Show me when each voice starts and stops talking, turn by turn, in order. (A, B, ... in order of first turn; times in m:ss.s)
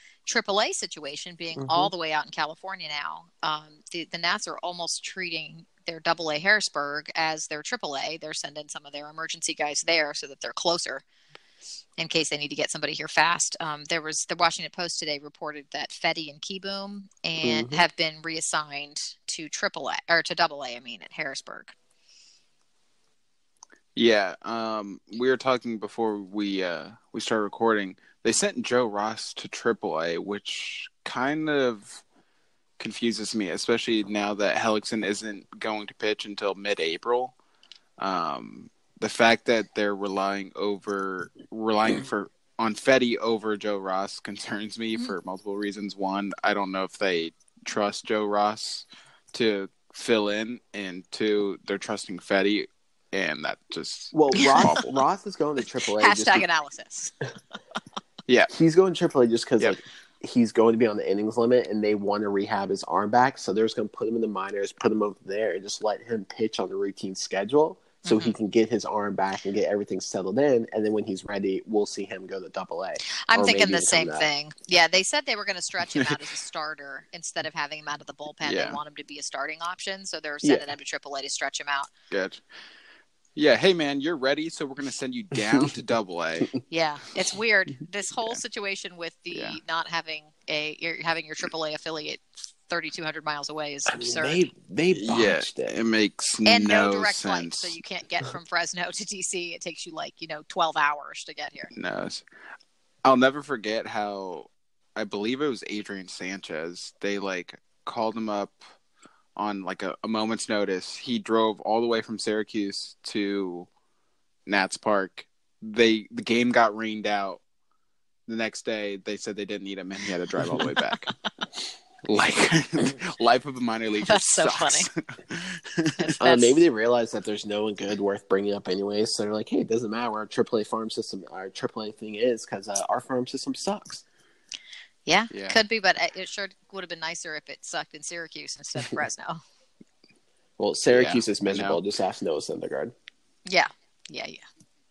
0:00.2-0:11.0 A
0:01.6-0:01.9 B
0:12.0-0:21.7 A
0:17.4-0:17.8 B
0:24.0-0:32.0 C
0:32.8-0:37.4 C
0:38.0-0:55.0 C
0:54.1-0:56.4 B
0:56.0-0:57.1 A
0:58.5-1:14.2 B
1:08.0-1:08.4 A
1:13.1-1:21.9 A
1:18.4-1:18.8 C
1:20.4-1:20.7 B
1:22.1-1:22.4 C
1:23.4-1:26.5 C
1:26.7-1:34.5 A
1:29.3-1:29.6 C
1:33.9-1:35.7 B
1:34.9-1:37.8 C
1:36.4-1:41.7 A
1:41.7-1:42.2 C
1:43.0-1:48.6 C
1:49.4-1:53.7 C
1:54.4-1:57.4 C
1:58.3-2:01.1 C
2:02.0-2:06.1 C
2:04.0-2:04.9 A
2:06.0-2:06.6 A
2:06.2-2:14.0 B
2:15.0-2:19.4 A
2:15.3-2:15.6 C
2:20.6-2:22.9 B
2:20.9-2:21.8 C
2:23.4-2:24.4 A